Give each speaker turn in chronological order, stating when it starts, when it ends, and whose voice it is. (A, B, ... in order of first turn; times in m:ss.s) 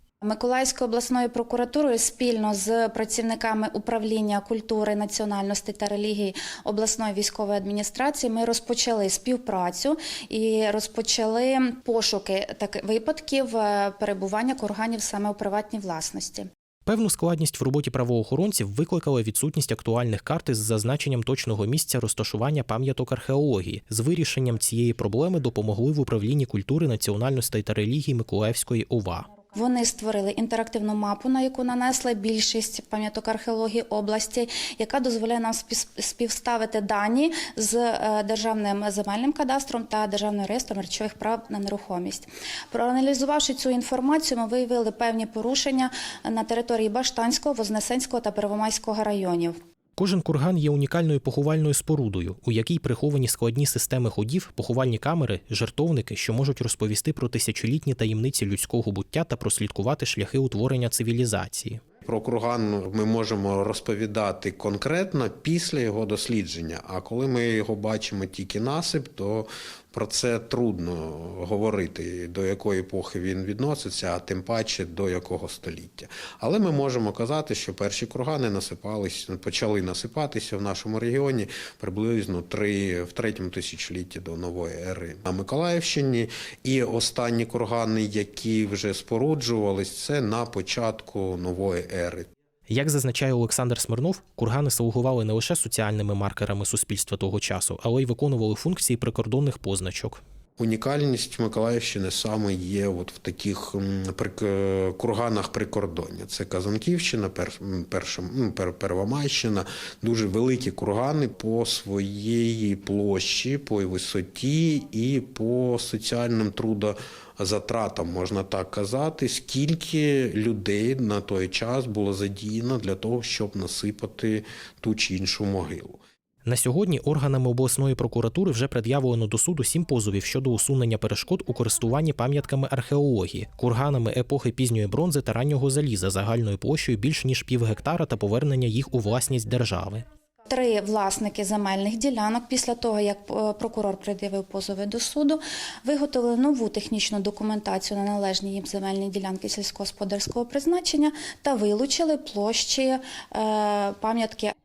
0:00.2-0:16.5 A
0:16.8-0:29.3 B
0:29.5-0:49.6 A
0:50.0-1:01.8 B
1:02.0-1:32.3 C
1:32.7-1:40.2 B
1:40.6-2:06.0 C
2:06.4-2:20.0 B
2:20.5-2:34.5 A